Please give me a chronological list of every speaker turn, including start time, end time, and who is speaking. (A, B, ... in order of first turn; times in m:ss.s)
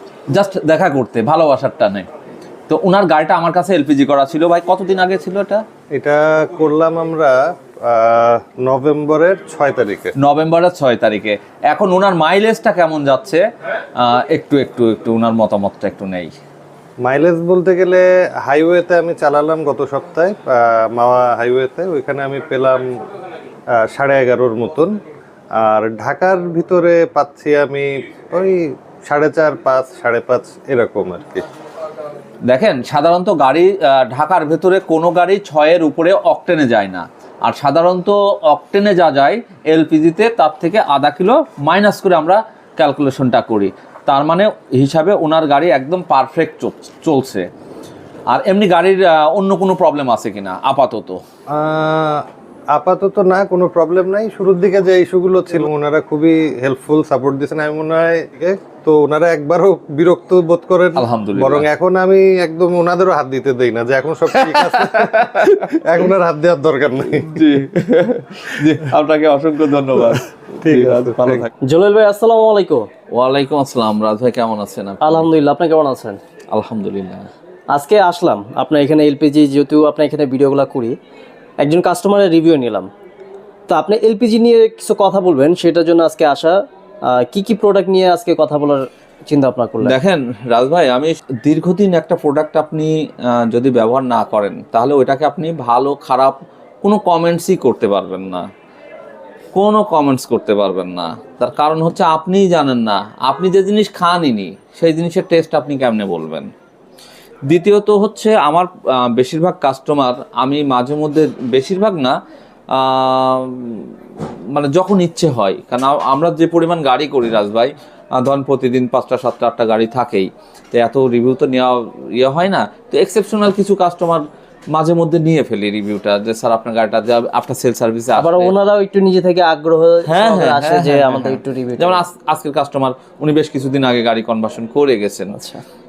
0:00.3-0:02.1 A
0:02.7-0:05.6 A
0:05.9-0:10.1 B
0:10.2-0:13.4 A
0:14.0-0:16.3 A
0:17.0-0:22.8 B
0:23.8-0:25.0 B
0:25.6-0:31.4 B
0:32.5-0:47.5 A
0:48.3-0:51.2 A
0:51.5-1:07.4 B
1:01.0-1:01.7 A
1:04.5-1:06.0 A
1:07.2-1:11.5 A
1:10.6-1:11.5 B
1:11.6-1:12.9 C
1:13.1-1:15.3 A
1:15.0-1:16.2 C
1:16.5-1:17.3 A
1:17.7-1:21.0 C
1:21.6-1:22.9 C
1:23.7-1:30.0 C
1:29.8-1:38.5 A
1:39.5-1:46.5 A
1:47.5-1:52.2 A
1:52.7-1:53.9 A
1:54.5-2:08.5 A
2:08.2-2:12.0 C
2:10.0-2:15.3 A
2:15.4-2:15.6 C